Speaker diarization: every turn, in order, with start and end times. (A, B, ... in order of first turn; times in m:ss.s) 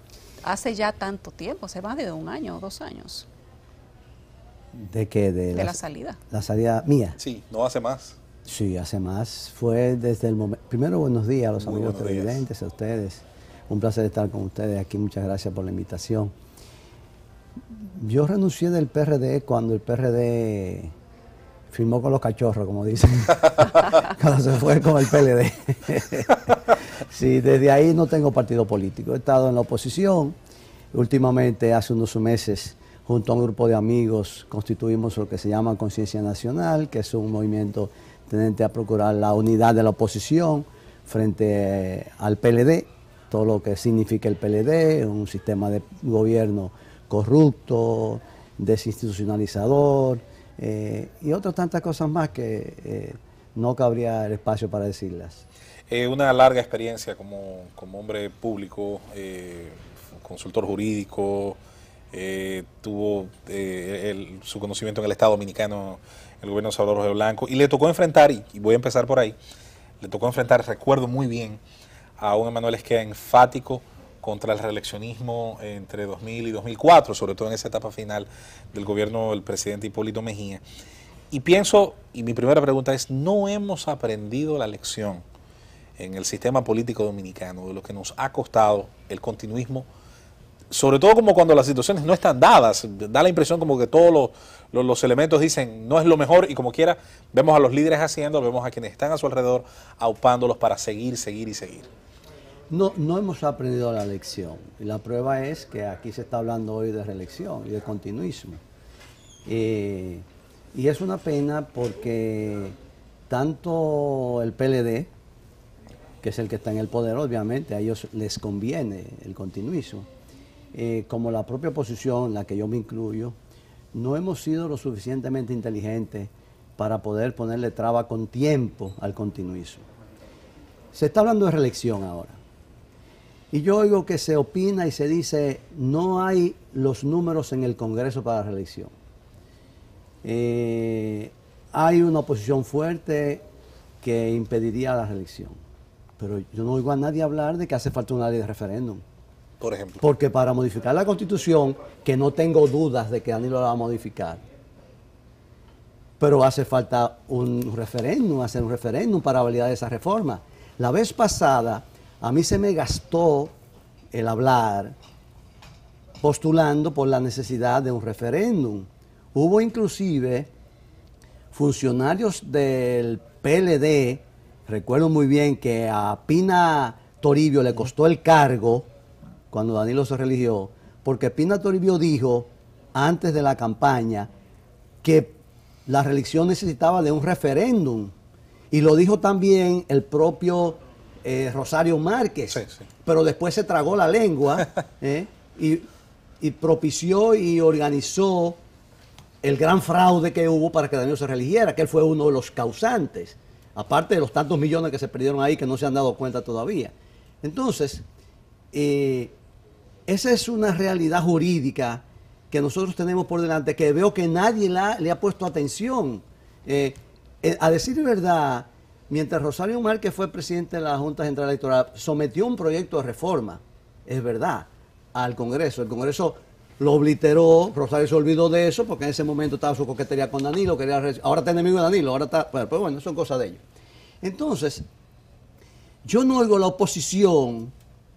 0:00.4-0:03.3 A
0:04.7-0:07.2 B
0:05.5-0:06.2 A
0:07.2-0:08.2 C
0:08.4-0:16.3 B
0:11.6-0:12.4 C
0:17.8-0:20.9 B
0:21.7-0:30.4 B
0:30.9-0:55.4 B
0:55.9-1:01.6 C
1:02.1-1:09.4 C
1:10.0-1:11.6 C
1:12.2-1:20.6 C
1:21.3-1:25.2 C
1:26.0-1:29.9 C
1:30.7-1:41.9 C
1:42.7-1:48.6 B
1:49.4-1:52.8 B
1:53.3-1:55.1 B
1:56.2-2:00.1 B
2:00.7-2:03.4 B
2:03.9-2:09.8 B
2:10.9-2:12.4 B
2:13.5-2:18.9 B
2:20.2-2:23.4 B
2:24.0-2:25.6 B
2:26.2-2:29.0 B
2:29.6-2:30.0 C
2:30.0-2:34.4 B
2:36.2-2:43.5 B
2:44.1-2:45.0 B
2:46.2-2:50.5 B
2:51.5-2:58.9 B
2:59.5-3:04.3 B
3:05.0-3:08.1 B
3:08.7-3:15.8 B
3:12.5-3:12.8 C
3:16.4-3:18.6 B
3:19.4-3:28.0 B
3:28.7-3:29.3 B
3:30.1-3:53.6 B
3:54.2-3:54.8 B
3:56.0-3:57.7 B